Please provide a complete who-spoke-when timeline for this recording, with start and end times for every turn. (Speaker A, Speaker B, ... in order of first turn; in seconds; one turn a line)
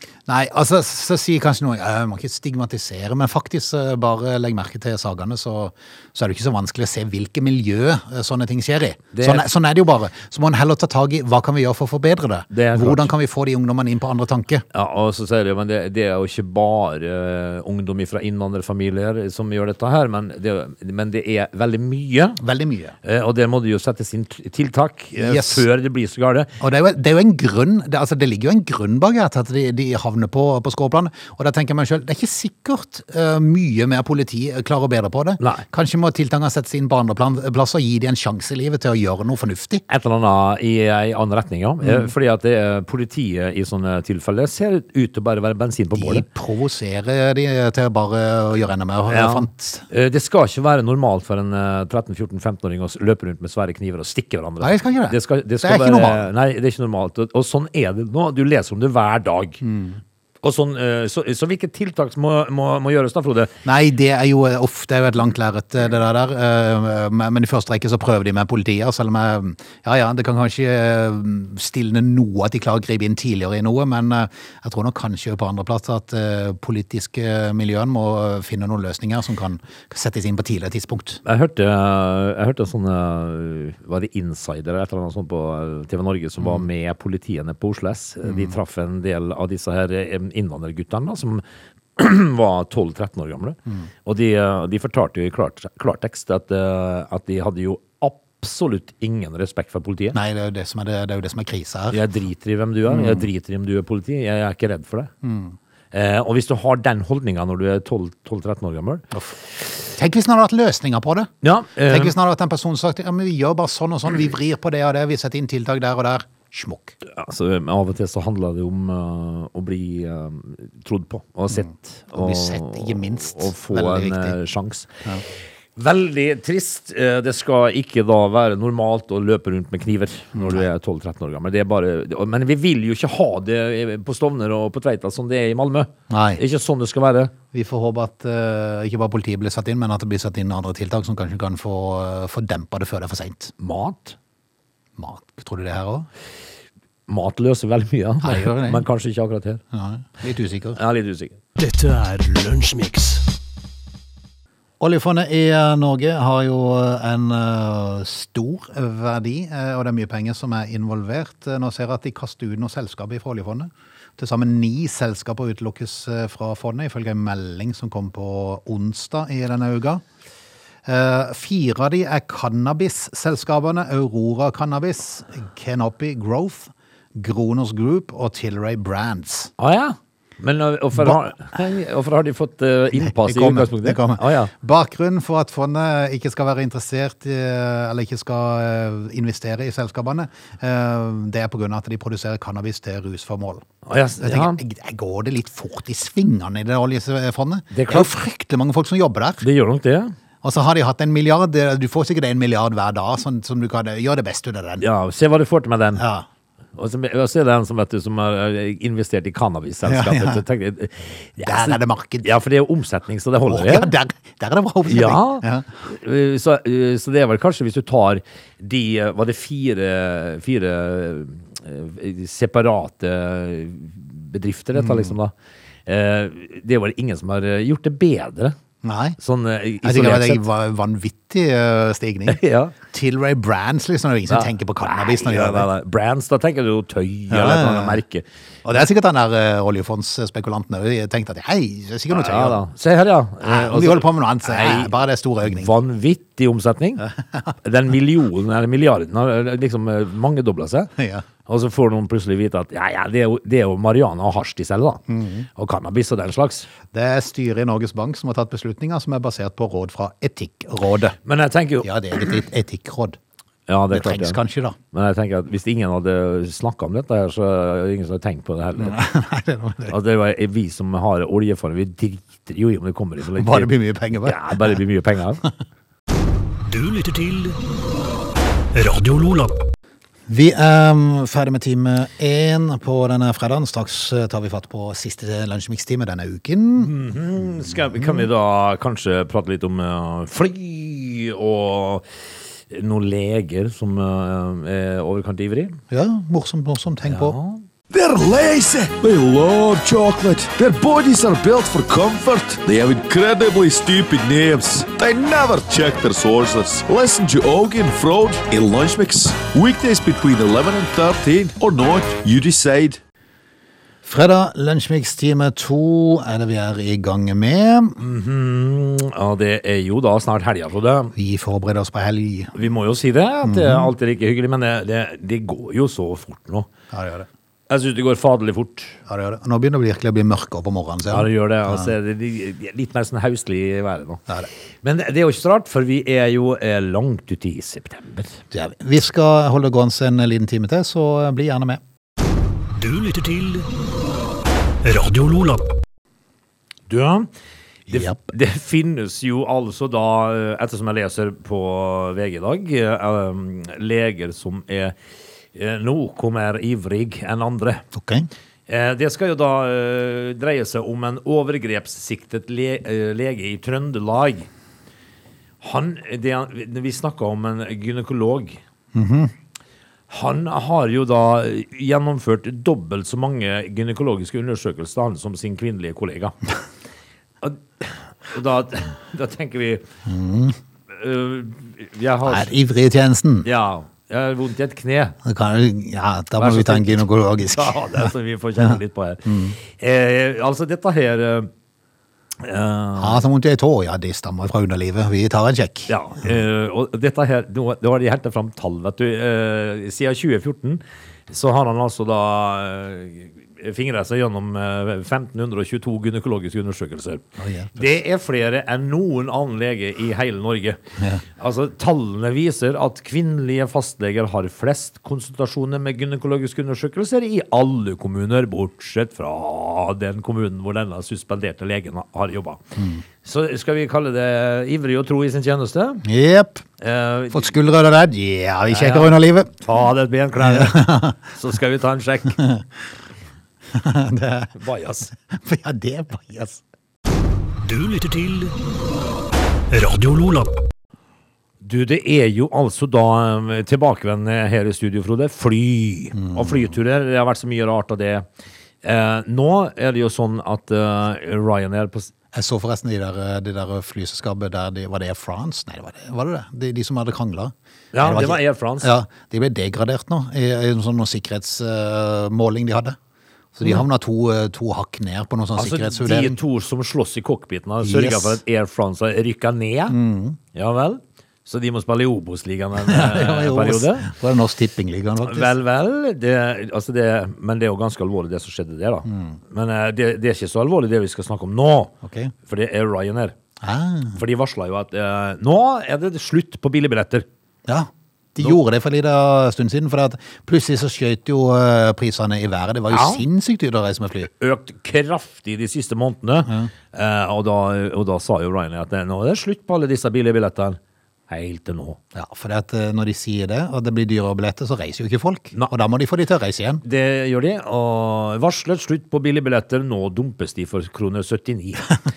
Speaker A: 0.3-14.6
Speaker B: 9.1-9.5
Speaker B: 12.5-13.1
Speaker B: 14.7-22.4
Speaker A: 22.4-22.9
Speaker B: 23.0-26.5
Speaker A: 25.1-25.6
Speaker A: 26.6-39.8
Speaker B: 35.4-35.6
Speaker B: 39.9-46.2
Speaker A: 41.8-42.1
Speaker A: 45.9-49.9
Speaker B: 49.1-59.6
Speaker A: 54.6-56.3
Speaker A: 59.6-60.0
Speaker B: 60.4-63.5
Speaker A: 63.6-81.2
Speaker B: 81.2-91.4
Speaker A: 88.3-88.5
Speaker B: 92.0-100.2
Speaker A: 100.1-102.0
Speaker B: 101.9-105.1
Speaker A: 102.8-103.2
Speaker A: 105.2-105.6
Speaker B: 105.9-109.0
Speaker A: 110.0-111.3
Speaker B: 111.4-112.1
Speaker A: 111.8-116.9
Speaker B: 117.0-125.0
Speaker A: 121.5-124.4
Speaker B: 125.8-137.3
Speaker A: 130.3-130.6
Speaker A: 136.1-136.4
Speaker A: 137.5-143.5
Speaker B: 143.6-144.2
Speaker A: 145.0-146.1
Speaker B: 147.1-149.6
Speaker A: 148.2-148.8
Speaker A: 149.7-150.8
Speaker B: 150.7-151.4
Speaker C: 151.6-153.2
Speaker A: 154.8-170.0
Speaker A: 170.8-179.5
Speaker B: 179.6-184.5
Speaker A: 183.0-193.7
Speaker B: 193.8-194.6
Speaker A: 194.2-199.4
Speaker B: 197.7-198.1
Speaker B: 199.4-200.1
Speaker A: 200.4-204.8
Speaker B: 204.8-206.0
Speaker A: 205.9-206.2
Speaker B: 206.8-213.9
Speaker A: 209.8-210.4
Speaker A: 211.4-212.3
Speaker A: 213.5-215.7
Speaker B: 214.8-225.3
Speaker A: 224.8-225.1
Speaker B: 225.8-228.6
Speaker A: 228.8-229.2
Speaker B: 229.2-230.4
Speaker A: 229.8-232.4
Speaker B: 232.3-232.7
Speaker A: 232.9-235.7
Speaker B: 234.3-238.2
Speaker A: 237.3-238.0
Speaker A: 238.6-242.6
Speaker B: 242.1-247.1
Speaker A: 243.4-245.7
Speaker A: 247.0-247.5
Speaker B: 247.6-250.9
Speaker A: 251.0-251.2
Speaker B: 251.4-255.0
Speaker A: 255.1-255.4
Speaker B: 255.5-256.7
Speaker A: 256.9-261.2
Speaker B: 261.2-261.9
Speaker A: 261.8-263.2
Speaker B: 263.7-264.4
Speaker A: 263.9-264.8
Speaker B: 264.9-269.0
Speaker A: 268.8-269.9
Speaker B: 269.9-273.7
Speaker A: 273.3-274.8
Speaker B: 274.2-275.4
Speaker C: 276.6-277.6
Speaker C: 278.7-279.6
Speaker A: 280.3-286.9
Speaker B: 286.8-292.1
Speaker A: 287.9-288.2
Speaker B: 292.7-295.8
Speaker A: 295.9-297.4
Speaker B: 297.1-297.6
Speaker D: 297.9-313.0
Speaker A: 314.0-318.0
Speaker B: 318.0-321.1
Speaker A: 321.1-322.5
Speaker B: 322.5-326.7
Speaker A: 323.4-323.9
Speaker A: 326.9-327.3
Speaker B: 327.7-329.0
Speaker A: 329.1-331.9
Speaker B: 331.1-334.2
Speaker B: 334.8-338.4
Speaker A: 338.5-341.8
Speaker C: 342.7-343.7
Speaker C: 344.8-345.7
Speaker B: 346.9-347.3
Speaker B: 347.9-354.9
Speaker A: 347.9-348.2
Speaker B: 355.5-357.8
Speaker A: 357.9-358.3
Speaker B: 358.7-364.5
Speaker B: 365.6-368.6
Speaker A: 368.9-369.3
Speaker B: 370.1-376.4
Speaker B: 377.4-379.9
Speaker A: 380.1-380.6
Speaker B: 380.9-382.5
Speaker A: 382.2-383.5
Speaker B: 383.4-385.2
Speaker A: 385.2-389.6
Speaker B: 386.4-391.5
Speaker B: 392.4-393.2
Speaker A: 392.9-395.9
Speaker B: 395.9-422.6
Speaker A: 407.4-407.9
Speaker A: 422.8-423.0
Speaker B: 423.2-426.0
Speaker A: 426.0-426.6
Speaker B: 426.8-427.5
Speaker A: 427.3-429.5
Speaker B: 428.7-432.4
Speaker A: 430.4-431.2
Speaker A: 432.4-432.6
Speaker A: 433.7-434.5
Speaker B: 434.5-435.1
Speaker A: 435.3-436.6
Speaker C: 437.6-438.6
Speaker C: 439.7-440.5
Speaker B: 441.6-448.2
Speaker A: 446.1-446.7
Speaker B: 448.8-452.1
Speaker A: 452.3-463.0
Speaker B: 457.9-458.9
Speaker A: 463.5-466.4
Speaker B: 465.6-470.0
Speaker A: 467.8-468.4
Speaker A: 469.9-470.4
Speaker B: 470.5-474.1
Speaker A: 472.8-475.5
Speaker B: 475.2-483.4
Speaker A: 479.1-479.4
Speaker A: 482.0-482.3
Speaker A: 483.6-484.2
Speaker B: 484.1-487.2
Speaker A: 487.7-494.3
Speaker B: 492.9-493.2
Speaker B: 494.3-502.0
Speaker A: 496.4-496.7
Speaker A: 502.1-506.8
Speaker B: 506.8-511.9